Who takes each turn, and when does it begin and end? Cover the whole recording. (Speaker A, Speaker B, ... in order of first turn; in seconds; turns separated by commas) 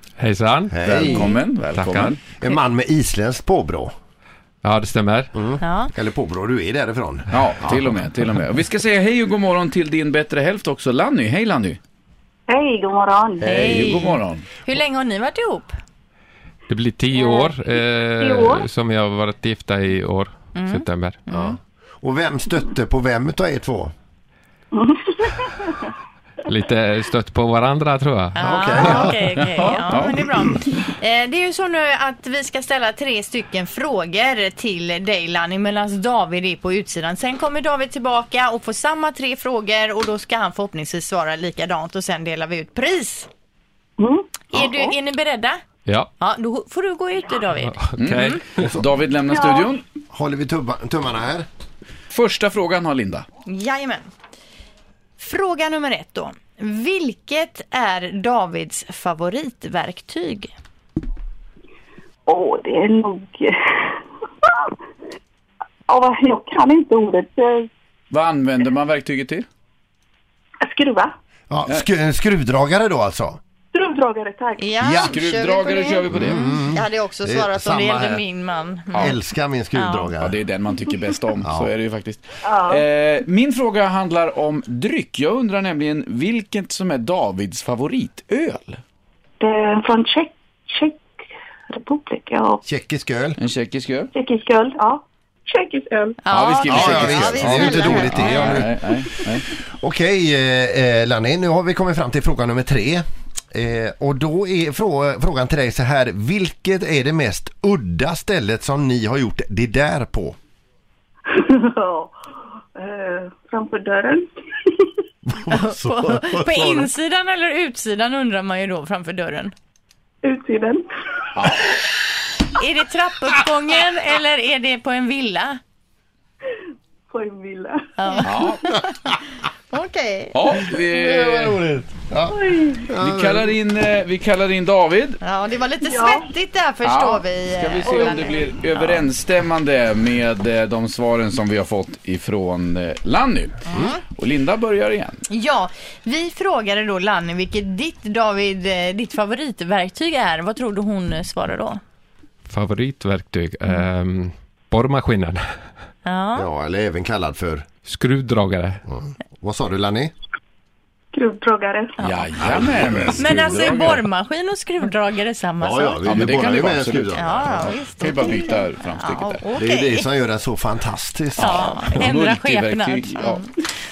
Speaker A: 0.2-1.2, Speaker B: 0.7-1.3, Speaker C: 0.9-2.2, Speaker A: 1.7-2.2, Speaker B: 2.4-3.9, Speaker A: 4.6-5.3, Speaker B: 5.3-7.9, Speaker D: 5.6-5.9, Speaker C: 7.3-11.8, Speaker E: 12.5-13.5, Speaker B: 13.4-14.0, Speaker D: 13.4-15.7, Speaker C: 13.4-14.4, Speaker A: 16.7-21.2, Speaker E: 17.1-17.5, Speaker E: 18.2-18.6, Speaker D: 20.6-21.6, Speaker B: 21.3-23.9, Speaker E: 24.7-25.9, Speaker A: 26.4-29.4, Speaker D: 28.3-43.3, Speaker B: 28.4-29.4, Speaker C: 29.5-30.2, Speaker E: 44.0-44.9, Speaker D: 44.5-45.6, Speaker A: 45.9-46.1, Speaker D: 46.2-48.4, Speaker A: 47.6-48.7, Speaker C: 48.0-49.8, Speaker E: 49.3-49.7, Speaker B: 50.1-51.5, Speaker C: 52.1-53.2, Speaker D: 53.5-54.1, Speaker D: 55.2-60.5, Speaker E: 62.3-64.8, Speaker E: 65.9-67.7, Speaker C: 68.1-69.5, Speaker E: 70.6-71.1, Speaker B: 71.5-73.4, Speaker E: 73.7-74.7, Speaker D: 74.6-79.2, Speaker B: 74.8-75.1, Speaker C: 75.0-76.4, Speaker B: 76.1-78.2, Speaker C: 78.9-79.2, Speaker B: 78.9-80.4, Speaker D: 79.7-80.1, Speaker C: 80.2-88.8, Speaker B: 81.4-81.7, Speaker E: 82.4-82.8, Speaker E: 89.4-91.0, Speaker E: 91.7-92.6, Speaker B: 92.6-93.4, Speaker C: 93.4-94.1, Speaker E: 94.1-96.2, Speaker D: 96.2-98.6, Speaker C: 96.3-99.5, Speaker B: 96.7-98.8, Speaker B: 99.8-110.3, Speaker E: 111.3-112.1, Speaker E: 112.7-114.9, Speaker B: 115.2-116.9, Speaker D: 115.5-119.5, Speaker E: 120.2-120.8, Speaker C: 121.3-121.7, Speaker D: 122.5-125.6, Speaker E: 127.1-128.2, Speaker D: 128.0-128.9, Speaker C: 128.2-128.6, Speaker D: 129.7-130.5, Speaker C: 130.3-131.6, Speaker B: 130.9-133.5, Speaker E: 132.3-132.8, Speaker C: 133.0-135.2, Speaker D: 135.2-139.1, Speaker E: 135.8-136.3, Speaker C: 136.8-143.6, Speaker E: 137.8-138.4, Speaker D: 143.7-144.0, Speaker C: 144.1-145.2, Speaker D: 145.3-151.8, Speaker A: 152.5-155.4, Speaker D: 156.0-156.5, Speaker B: 156.3-157.7, Speaker A: 157.8-158.8, Speaker B: 158.9-160.1, Speaker E: 161.1-161.9, Speaker D: 162.0-162.4, Speaker C: 162.0-164.0, Speaker B: 162.5-163.2, Speaker D: 163.2-166.3, Speaker B: 165.6-167.7, Speaker C: 166.0-169.4, Speaker D: 167.1-170.1, Speaker B: 169.5-171.7, Speaker D: 171.4-173.5, Speaker C: 171.4-173.6